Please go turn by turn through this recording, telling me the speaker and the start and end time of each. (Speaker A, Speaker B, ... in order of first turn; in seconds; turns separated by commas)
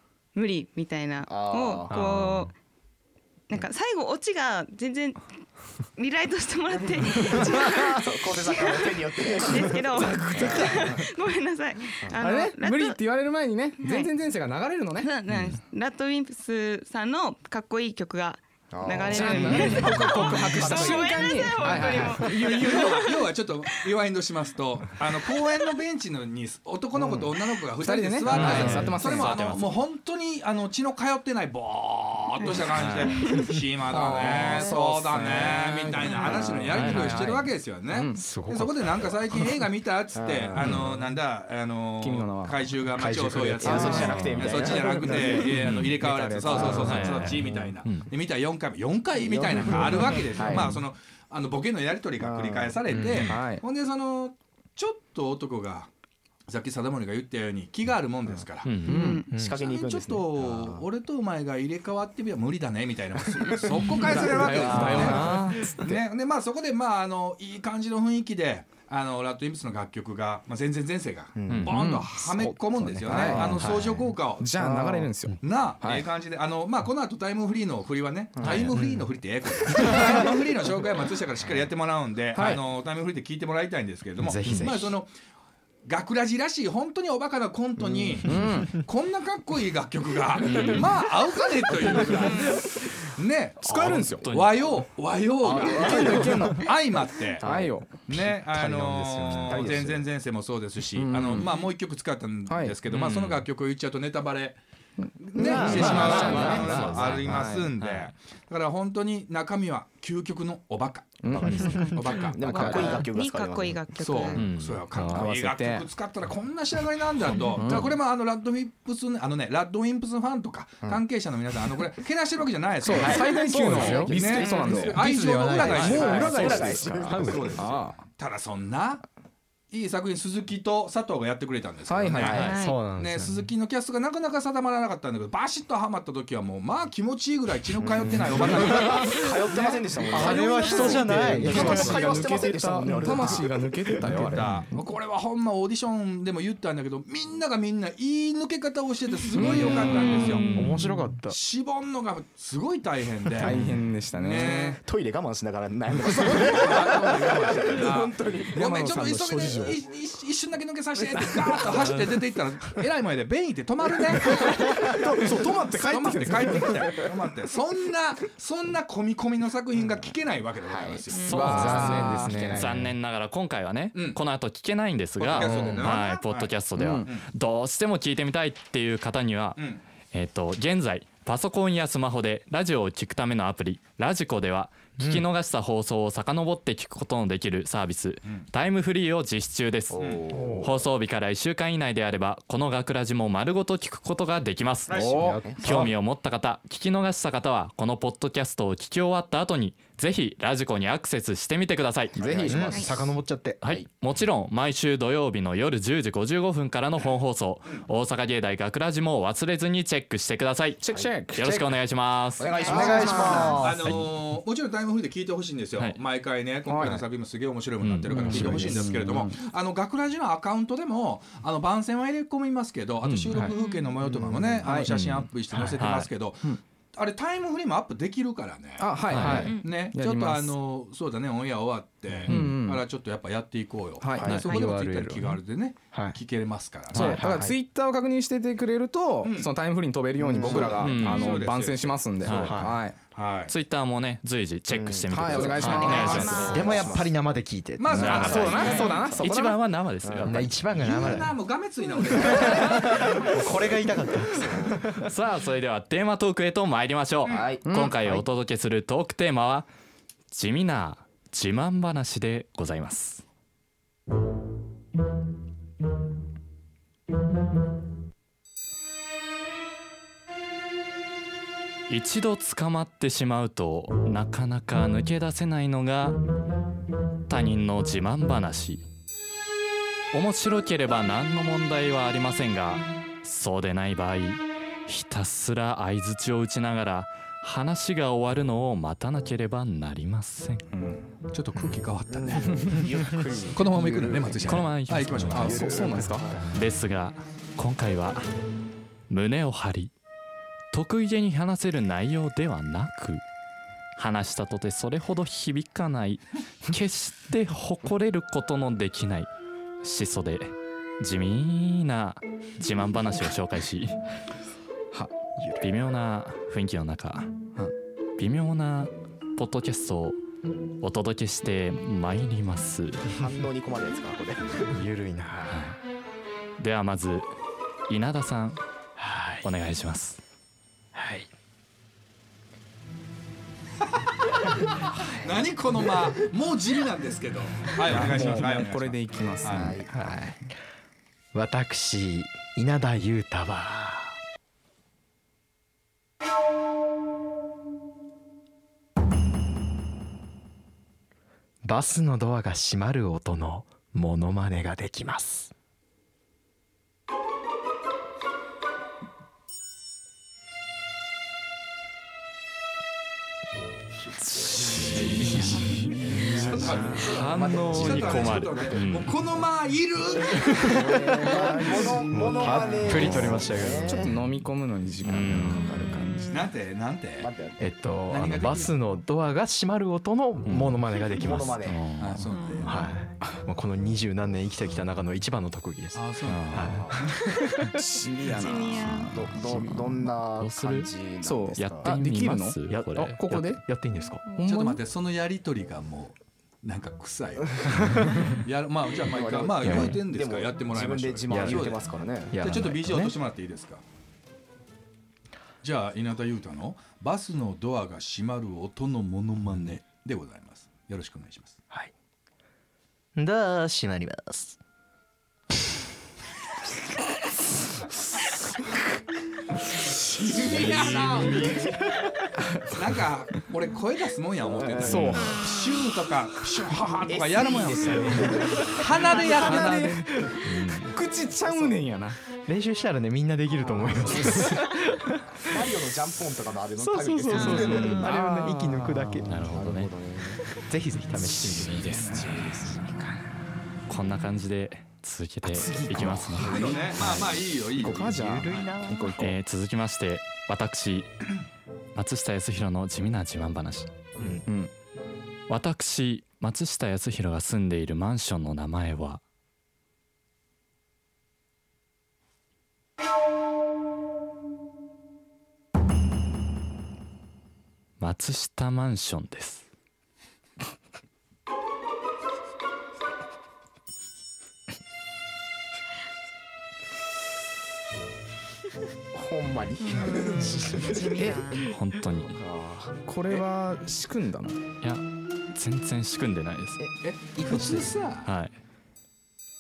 Speaker A: 0.3-2.5, Speaker B: 1.3-2.0, Speaker C: 1.9-2.5, Speaker A: 3.5-5.2, Speaker A: 6.0-13.0, Speaker B: 6.8-11.0, Speaker D: 10.0-10.9, Speaker D: 12.2-15.1, Speaker A: 13.8-14.1, Speaker A: 15.0-23.9, Speaker B: 18.7-21.6, Speaker D: 19.1-22.9, Speaker E: 19.9-20.6, Speaker E: 22.4-55.9, Speaker A: 25.3-25.7, Speaker B: 26.9-27.3, Speaker D: 27.8-29.4, Speaker C: 28.3-29.8, Speaker F: 28.4-28.9, Speaker C: 32.8-33.2, Speaker A: 33.2-33.4, Speaker B: 33.9-34.8, Speaker D: 34.1-38.4, Speaker C: 36.7-37.3, Speaker F: 38.2-38.9, Speaker B: 40.1-40.9, Speaker D: 42.0-42.6, Speaker F: 43.0-45.1, Speaker D: 43.6-44.3, Speaker B: 43.6-45.5, Speaker C: 44.0-44.3, Speaker D: 44.9-47.3, Speaker C: 45.5-46.0, Speaker B: 46.5-47.8, Speaker C: 46.6-48.1, Speaker B: 49.1-50.7, Speaker B: 52.2-52.8, Speaker D: 53.1-53.6, Speaker E: 56.5-58.9, Speaker C: 58.6-59.2, Speaker D: 58.9-59.2, Speaker A: 58.9-59.3, Speaker F: 58.9-59.6, Speaker B: 59.4-60.9, Speaker E: 59.5-74.5, Speaker D: 64.0-66.0, Speaker B: 64.5-65.1, Speaker F: 64.5-65.6, Speaker C: 65.1-65.5, Speaker B: 71.3-71.7, Speaker C: 71.5-71.8, Speaker D: 71.7-73.8, Speaker B: 72.9-75.1, Speaker D: 74.4-76.1, Speaker E: 75.4-85.1, Speaker B: 78.4-78.8, Speaker F: 78.4-79.1, Speaker F: 79.7-80.3, Speaker D: 82.3-82.6, Speaker F: 84.2-84.9, Speaker D: 84.5-84.7, Speaker E: 85.8-97.5, Speaker B: 87.8-88.3, Speaker D: 88.2-88.8, Speaker C: 90.5-90.8, Speaker D: 90.5-90.8, Speaker B: 91.9-92.4, Speaker A: 92.3-92.6, Speaker D: 93.6-94.3, Speaker C: 93.7-94.8, Speaker B: 95.4-96.6, Speaker D: 95.6-96.7, Speaker B: 97.4-97.8, Speaker D: 97.4-98.1, Speaker E: 98.1-104.6, Speaker F: 98.5-99.7, Speaker B: 99.5-99.9, Speaker D: 101.0-101.6, Speaker D: 102.5-102.8, Speaker C: 102.9-103.5, Speaker E: 105.2-111.3, Speaker B: 105.3-106.9, Speaker F: 105.4-106.7, Speaker D: 105.6-107.7, Speaker C: 105.7-108.1, Speaker D: 111.2-111.9, Speaker B: 111.3-114.3, Speaker A: 111.5-114.5, Speaker E: 111.9-113.1, Speaker D: 112.5-113.0, Speaker E: 114.0-129.1, Speaker C: 114.3-115.2, Speaker D: 114.9-115.9, Speaker D: 117.3-118.0, Speaker D: 122.8-128.1, Speaker F: 123.0-127.6, Speaker B: 125.6-127.7, Speaker E: 129.7-142.0, Speaker D: 131.9-132.4, Speaker C: 132.2-132.6, Speaker B: 132.2-132.5, Speaker A: 132.3-132.8, Speaker F: 132.6-133.4, Speaker B: 137.8-143.7, Speaker F: 138.0-139.2, Speaker F: 140.1-143.3, Speaker A: 140.7-141.0, Speaker D: 141.2-144.8, Speaker E: 144.0-150.6, Speaker D: 149.3-150.3, Speaker A: 150.1-150.4, Speaker C: 150.2-150.9, Speaker F: 150.4-151.4, Speaker E: 151.2-154.8, Speaker D: 153.4-154.7, Speaker B: 154.5-159.6, Speaker E: 156.1-171.6, Speaker D: 158.7-159.7, Speaker F: 158.9-159.7, Speaker D: 164.2-167.1, Speaker B: 169.8-170.2, Speaker B: 170.7-172.8, Speaker A: 171.1-172.0, Speaker C: 171.2-179.6, Speaker D: 171.3-172.7, Speaker F: 171.4-172.9, Speaker E: 173.9-174.2, Speaker E: 175.2-177.3, Speaker D: 176.7-177.1, Speaker E: 179.6-179.8, Speaker C: 180.1-202.6, Speaker F: 185.0-185.2, Speaker B: 189.9-190.9, Speaker E: 190.0-190.2, Speaker F: 190.3-190.7, Speaker E: 194.9-195.3, Speaker D: 194.9-195.9, Speaker B: 195.2-195.9, Speaker D: 202.2-202.9, Speaker B: 202.2-203.0, Speaker F: 202.5-203.6, Speaker C: 203.6-210.8, Speaker D: 210.8-211.7, Speaker C: 211.4-212.6, Speaker B: 212.4-213.6, Speaker A: 212.5-213.6, Speaker F: 212.7-213.8, Speaker D: 212.8-213.6, Speaker E: 213.6-237.2, Speaker C: 213.8-214.1, Speaker D: 216.7-217.0, Speaker C: 217.8-218.7, Speaker D: 218.1-219.4, Speaker C: 223.0-223.5, Speaker A: 223.6-224.0, Speaker B: 224.0-224.8, Speaker D: 224.6-224.9, Speaker C: 224.9-226.1, Speaker D: 228.8-230.6, Speaker C: 229.1-229.6, Speaker A: 229.3-229.7, Speaker D: 232.3-232.8, Speaker D: 234.0-234.4, Speaker B: 234.1-234.4, Speaker C: 234.2-234.5, Speaker F: 234.3-235.4, Speaker F: 235.9-236.2, Speaker C: 236.9-237.2, Speaker D: 236.9-243.0, Speaker F: 237.0-237.5, Speaker E: 239.2-239.6, Speaker B: 240.2-241.0, Speaker E: 240.4-242.6, Speaker C: 240.8-241.5, Speaker C: 242.2-242.6, Speaker F: 242.4-242.8, Speaker E: 243.1-243.6, Speaker C: 243.5-246.7, Speaker B: 244.7-247.2, Speaker D: 245.1-246.4, Speaker F: 245.6-249.2, Speaker E: 245.8-246.5, Speaker A: 245.9-246.9, Speaker E: 247.8-249.1, Speaker C: 247.9-250.5, Speaker D: 248.1-249.7, Speaker A: 248.6-249.1, Speaker B: 250.0-250.5, Speaker F: 250.3-251.4, Speaker E: 250.6-253.6, Speaker F: 252.2-255.1, Speaker B: 254.2-254.9, Speaker C: 255.0-259.7, Speaker B: 257.3-257.7, Speaker D: 257.6-258.1, Speaker C: 260.3-263.2, Speaker C: 271.9-276.2, Speaker C: 277.3-278.9, Speaker C: 280.1-290.7, Speaker D: 290.7-291.1, Speaker E: 291.3-292.9, Speaker B: 292.1-294.7, Speaker E: 293.5-296.1, Speaker C: 294.4-295.8, Speaker D: 295.2-296.4, Speaker B: 295.3-296.6, Speaker C: 296.5-298.3, Speaker C: 299.1-299.9, Speaker C: 300.7-303.2, Speaker C: 304.0-309.3, Speaker C: 309.8-314.0, Speaker F: 315.4-315.7, Speaker C: 315.6-317.4, Speaker C: 318.2-320.2, Speaker C: 320.8-323.0, Speaker B: 323.1-324.8, Speaker F: 324.7-325.6, Speaker C: 325.5-325.8, Speaker C: 326.6-327.3, Speaker C: 327.9-328.6, Speaker F: 329.0-329.5, Speaker C: 329.4-330.2, Speaker F: 330.9-331.3, Speaker E: 335.1-339.9, Speaker D: 337.9-340.2, Speaker F: 338.2-338.5, Speaker B: 339.5-340.2, Speaker F: 339.9-340.4, Speaker F: 341.3-344.2, Speaker F: 351.6-355.5, Speaker C: 364.2-369.1, Speaker E: 365.2-365.7, Speaker F: 366.2-366.4, Speaker D: 366.2-366.9, Speaker E: 366.3-372.9, Speaker B: 366.4-368.8, Speaker F: 370.5-374.1, Speaker B: 370.6-374.1, Speaker C: 372.9-373.5, Speaker D: 373.8-376.4, Speaker C: 375.0-375.9, Speaker E: 376.3-377.3, Speaker B: 377.2-377.6, Speaker F: 377.6-381.7, Speaker E: 378.1-378.8, Speaker C: 380.5-380.8, Speaker B: 381.1-381.9, Speaker C: 381.4-382.4, Speaker E: 382.0-382.9, Speaker A: 382.3-382.7, Speaker F: 382.6-387.8, Speaker E: 385.9-386.9, Speaker C: 386.3-386.9, Speaker B: 386.6-387.0, Speaker D: 387.6-389.9, Speaker A: 388.2-389.1, Speaker B: 389.1-392.0, Speaker C: 390.4-390.9, Speaker D: 391.2-393.6, Speaker C: 391.6-393.2, Speaker F: 393.0-394.2, Speaker D: 394.3-394.8, Speaker E: 394.4-403.8, Speaker F: 397.7-398.3, Speaker B: 399.0-402.4, Speaker F: 399.6-399.9, Speaker F: 401.3-401.8, Speaker F: 402.3-403.2, Speaker E: 405.6-411.6, Speaker F: 413.2-414.6, Speaker E: 420.1-421.7, Speaker D: 420.3-421.5, Speaker D: 422.4-422.8, Speaker E: 422.7-430.2, Speaker B: 424.6-425.2, Speaker D: 424.8-425.4, Speaker C: 424.8-425.3, Speaker A: 425.2-425.7, Speaker B: 427.1-429.8, Speaker D: 429.3-432.2, Speaker F: 430.1-430.4, Speaker C: 430.4-431.0, Speaker F: 432.4-435.6, Speaker B: 433.6-434.6, Speaker B: 435.4-438.1, Speaker F: 436.8-439.3, Speaker D: 437.2-439.2, Speaker A: 437.4-438.1, Speaker C: 439.2-439.9, Speaker B: 439.5-440.5, Speaker F: 440.6-443.2, Speaker C: 441.4-442.2, Speaker B: 442.0-442.8, Speaker C: 443.9-447.3, Speaker F: 445.5-447.0, Speaker D: 445.6-446.0, Speaker E: 446.0-448.8, Speaker B: 446.4-446.8, Speaker D: 447.8-449.4, Speaker F: 448.0-449.4, Speaker C: 449.2-451.3, Speaker C: 451.9-453.9, Speaker D: 454.4-454.7, Speaker C: 455.5-459.2, Speaker C: 468.0-469.7, Speaker B: 479.1-481.5, Speaker A: 479.8-481.7, Speaker F: 480.8-481.5, Speaker C: 481.6-482.4, Speaker B: 482.2-483.0, Speaker D: 483.1-484.6, Speaker C: 484.8-486.8, Speaker B: 486.8-487.8, Speaker E: 487.0-488.3, Speaker C: 488.2-488.6